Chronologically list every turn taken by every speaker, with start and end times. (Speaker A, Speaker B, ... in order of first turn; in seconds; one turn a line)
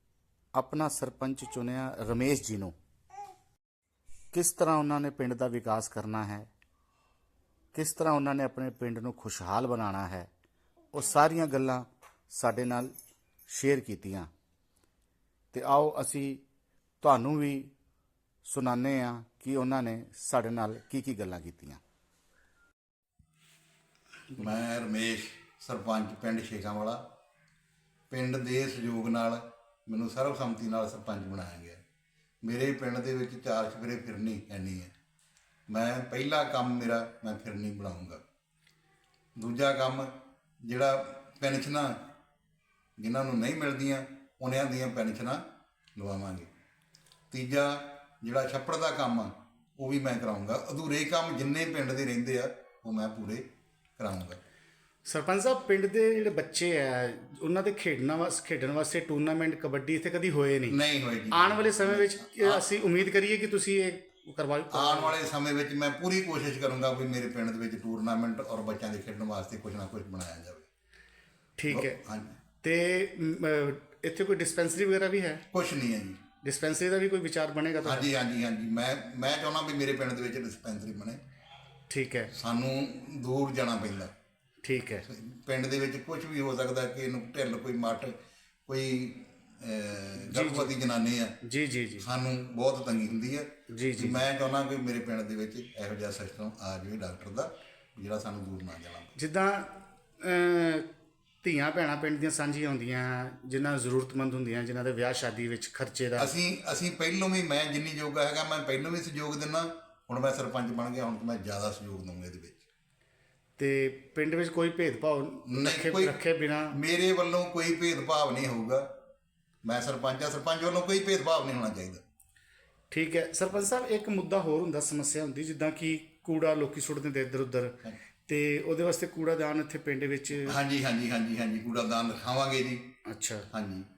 Speaker A: 0.5-2.7
Speaker A: 4.3-6.5
Speaker A: 7.7-10.3
Speaker A: 10.9-12.9
Speaker A: 13.5-14.3
Speaker A: 15.5-16.4
Speaker A: 17.0-17.7
Speaker A: 18.4-21.8
Speaker B: 24.3-27.0
Speaker B: 28.1-31.8
Speaker B: 32.4-34.9
Speaker B: 35.7-38.2
Speaker B: 39.4-40.1
Speaker B: 40.6-42.0
Speaker B: 43.0-45.4
Speaker B: 46.0-46.5
Speaker B: 47.3-53.4
Speaker B: 54.0-54.4
Speaker A: 55.1-60.8
Speaker B: 60.7-62.6
Speaker A: 61.3-65.2
Speaker B: 64.7-70.7
Speaker A: 71.6-72.0
Speaker B: 71.7-72.3
Speaker A: 72.6-75.4
Speaker B: 75.5-76.2
Speaker A: 76.4-78.1
Speaker B: 77.8-81.2
Speaker A: 81.9-82.3
Speaker B: 82.3-84.1
Speaker A: 84.6-85.1
Speaker B: 85.1-88.2
Speaker B: 88.7-91.4
Speaker A: 90.2-90.8
Speaker A: 91.4-92.1
Speaker B: 92.0-99.1
Speaker A: 93.7-94.2
Speaker A: 99.2-100.9
Speaker A: 101.4-106.3
Speaker B: 106.2-112.6
Speaker A: 113.6-116.8
Speaker B: 115.5-116.2
Speaker B: 116.7-118.9
Speaker B: 119.6-122.0
Speaker A: 122.9-130.6
Speaker B: 130.4-132.8
Speaker A: 133.1-133.5
Speaker B: 133.5-133.9